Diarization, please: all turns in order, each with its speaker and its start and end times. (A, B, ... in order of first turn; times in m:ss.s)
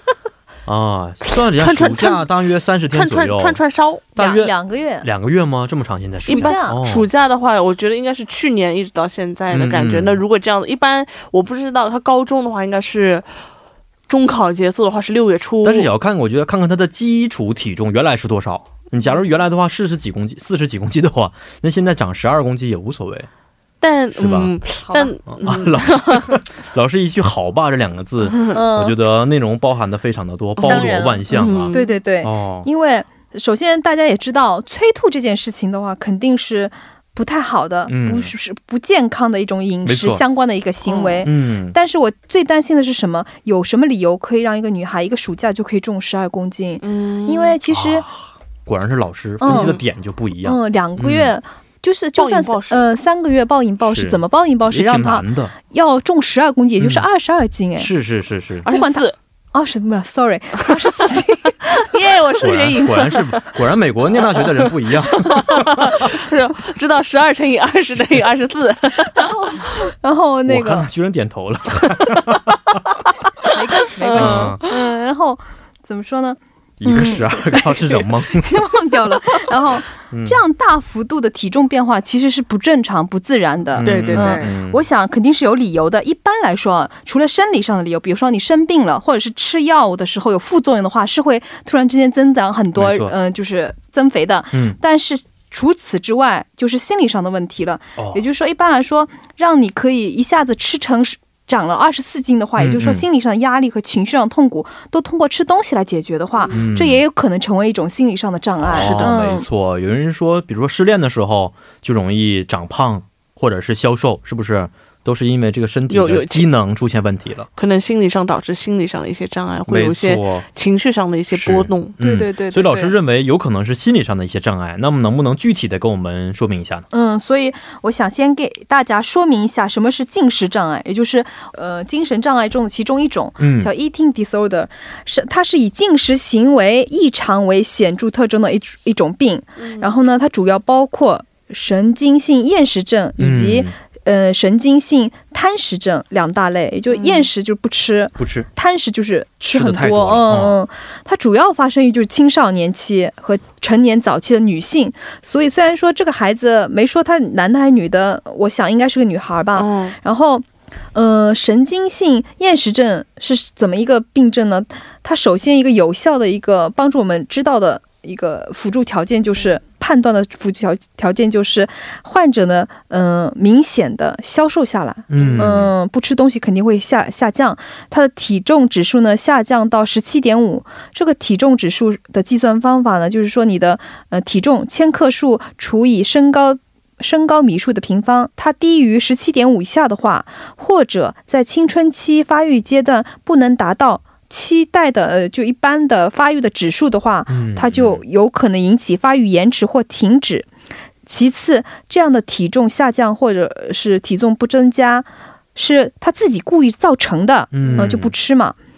0:00.7-0:03.6 A
0:01.3-0:02.3 B
0:02.9-0:04.4 B
0:04.2-0:07.1 A
0:04.2-0:05.1 C
0:06.3-0:06.8 C
0:06.3-0:13.3 B
0:09.5-0:10.2 A
0:14.1-0:15.9 B
0:15.6-0:23.3 A
0:23.8-0:26.4 B
0:24.2-0:24.5 A
0:24.8-0:25.2 C
0:25.3-0:32.7 A
0:28.5-0:29.0 C
0:30.6-0:31.9 B
0:30.6-0:48.1 C
0:37.9-0:38.3 A
0:39.8-0:40.2 A
0:40.9-0:41.3 B
0:41.2-0:41.8 A
0:46.8-0:47.6 B
0:47.7-0:51.3 A
0:49.4-0:49.8 C
0:49.4-0:49.8 B
0:50.4-0:57.9 C
0:52.2-0:52.9 B
0:53.8-0:55.5 A
0:56.8-0:57.1 A
0:57.8-0:58.7 A
0:58.6-0:59.1 B
0:58.7-1:01.9 C
1:01.7-1:03.6 B
1:02.4-1:06.2 A
1:04.2-1:09.7 B
1:09.2-1:10.9 C
1:10.5-1:12.8 A
1:13.5-1:49.5 C
1:14.0-1:14.7 B
1:14.1-1:14.6 A
1:16.8-1:18.5 A
1:20.1-1:20.4 A
1:23.8-1:24.8 A
1:23.8-1:24.5 B
1:32.8-1:33.1 A
1:34.5-1:34.8 A
1:38.0-1:38.2 A
1:42.6-1:43.1 A
1:46.5-1:47.0 A
1:48.7-1:49.1 B
1:48.7-1:57.5 A
1:55.9-1:56.5 B
1:57.6-2:01.9 B
1:59.7-2:00.5 A
2:01.3-2:06.9 A
2:02.0-2:02.9 C
2:06.9-3:20.5 C
2:13.4-2:13.7 A
2:19.6-2:19.9 B
2:23.2-2:23.7 A
2:26.9-2:27.3 B
2:28.2-2:28.5 A
2:29.5-2:30.6 A
2:39.6-2:40.0 B
2:55.1-2:55.7 A
2:55.1-2:55.5 B
3:17.3-3:18.0 A
3:21.1-3:28.6 C
3:27.5-3:28.1 A
3:27.6-3:27.9 B